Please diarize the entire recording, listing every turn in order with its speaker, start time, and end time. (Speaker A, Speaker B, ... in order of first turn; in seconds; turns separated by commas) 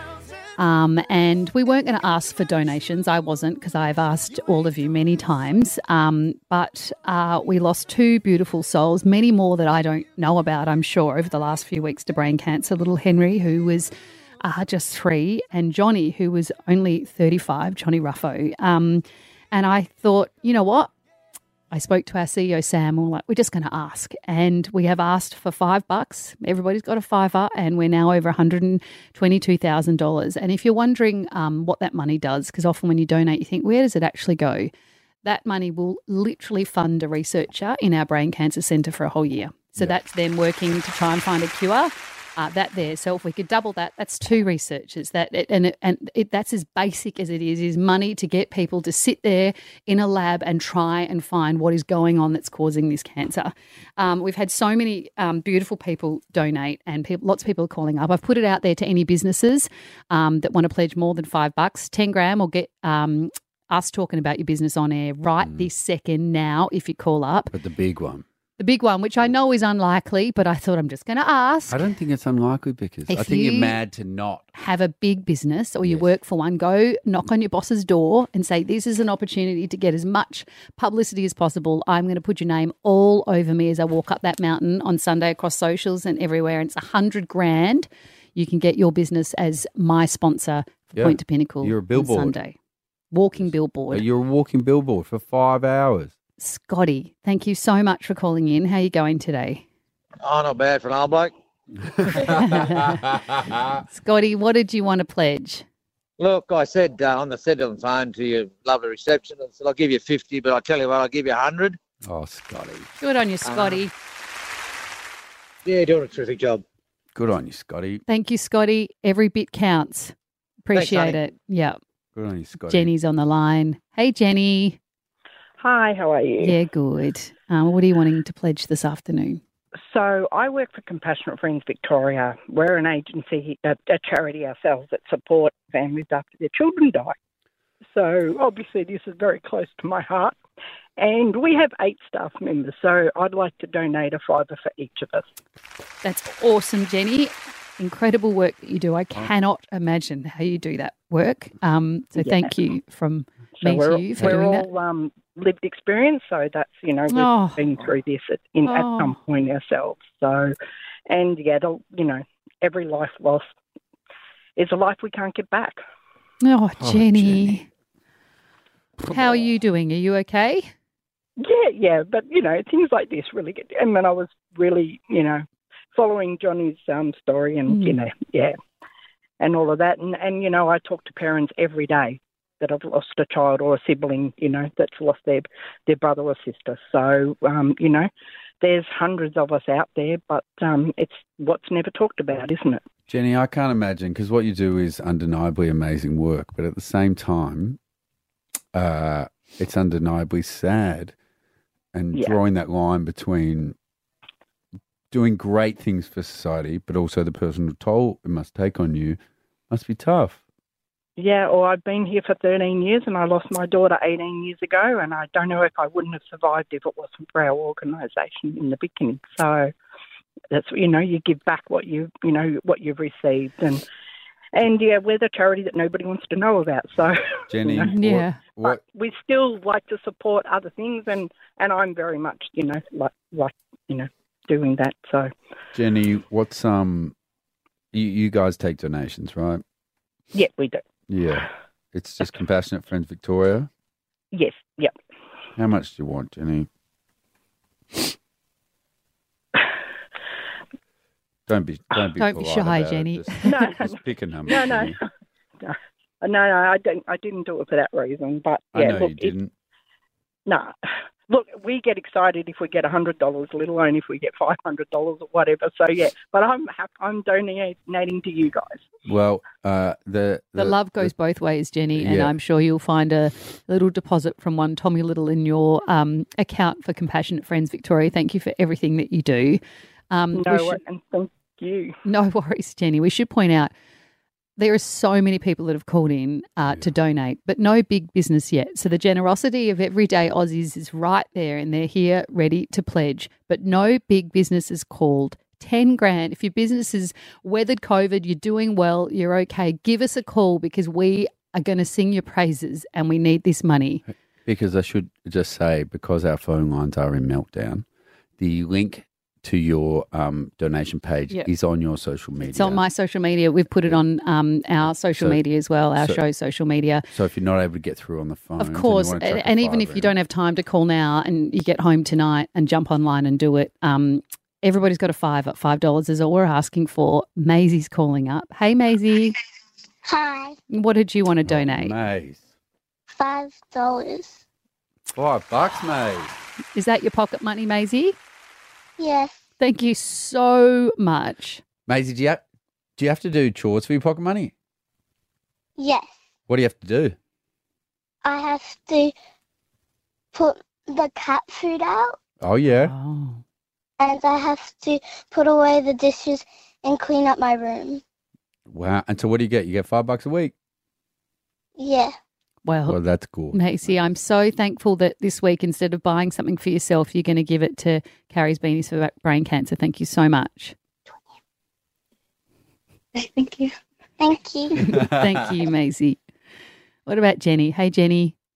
Speaker A: 0.6-13.9, Speaker A: 14.4-20.9, Speaker A: 21.7-34.7, Speaker A: 35.2-67.5, Speaker B: 65.4-65.7, Speaker B: 67.5-68.2, Speaker A: 68.6-71.8, Speaker B: 71.7-74.5, Speaker A: 73.1-73.8, Speaker A: 74.5-92.6, Speaker B: 91.0-92.3, Speaker A: 93.1-94.0, Speaker B: 93.9-96.1, Speaker A: 96.4-99.7, Speaker C: 100.2-101.3, Speaker B: 102.0-103.8, Speaker A: 102.2-103.0, Speaker A: 103.9-105.7, Speaker C: 106.2-111.8, Speaker B: 112.0-112.9, Speaker A: 113.0-113.9, Speaker C: 113.4-113.8, Speaker C: 115.7-116.6, Speaker B: 117.2-118.0, Speaker A: 118.1-120.1, Speaker A: 120.7-121.8, Speaker C: 120.7-121.2, Speaker B: 122.2-122.9, Speaker A: 122.7-124.8, Speaker D: 125.6-126.6, Speaker A: 126.4-129.4, Speaker D: 129.8-137.2, Speaker D: 137.9-140.4, Speaker D: 141.0-145.3, Speaker A: 146.0-154.7, Speaker D: 152.2-152.5, Speaker D: 153.6-160.6, Speaker A: 157.1-157.6, Speaker A: 158.7-159.2, Speaker D: 161.1-163.5, Speaker D: 164.6-165.8, Speaker A: 166.4-167.7, Speaker B: 166.8-167.6, Speaker B: 169.1-169.4, Speaker A: 169.1-170.7, Speaker D: 171.4-178.6, Speaker A: 177.7-178.0, Speaker D: 179.4-188.1, Speaker D: 188.6-192.8, Speaker B: 193.1-197.8, Speaker B: 198.7-201.1, Speaker B: 201.9-203.8, Speaker B: 205.1-210.4, Speaker D: 211.2-219.7, Speaker D: 220.5-223.8, Speaker D: 224.5-227.9, Speaker B: 227.5-228.8, Speaker A: 227.9-228.4, Speaker D: 228.6-235.3, Speaker B: 235.7-237.2, Speaker B: 237.9-239.6, Speaker D: 240.3-240.8, Speaker B: 241.1-243.7, Speaker D: 244.3-244.9, Speaker B: 245.6-246.7, Speaker B: 251.5-255.0, Speaker A: 252.2-253.5, Speaker D: 253.5-255.0, Speaker D: 255.6-259.4, Speaker B: 258.7-259.5, Speaker D: 260.5-260.8, Speaker D: 261.3-268.8, Speaker B: 269.1-271.1, Speaker A: 270.6-280.8, Speaker B: 272.0-272.3, Speaker D: 280.3-282.0, Speaker A: 282.1-283.7, Speaker A: 284.6-304.0, Speaker B: 304.4-307.9, Speaker B: 308.4-312.8, Speaker A: 312.5-317.1, Speaker B: 315.1-315.4, Speaker B: 317.1-320.1, Speaker A: 318.6-329.4, Speaker E: 330.1-330.6, Speaker A: 330.7-331.9, Speaker B: 331.4-332.5, Speaker E: 333.1-334.4, Speaker B: 335.1-336.4, Speaker A: 336.8-338.2, Speaker E: 339.0-339.4, Speaker A: 339.6-341.6, Speaker B: 341.9-342.4, Speaker B: 343.0-344.5, Speaker E: 345.8-346.2, Speaker B: 346.5-347.2, Speaker E: 348.2-349.1, Speaker E: 350.3-352.2, Speaker B: 352.4-352.9, Speaker A: 352.7-353.4, Speaker E: 354.0-358.0, Speaker B: 358.7-360.5, Speaker E: 361.8-362.2, Speaker A: 362.6-363.0, Speaker B: 362.9-364.1, Speaker A: 363.5-370.8, Speaker E: 373.2-374.8, Speaker A: 374.8-376.2, Speaker B: 374.9-375.4, Speaker A: 377.1-378.4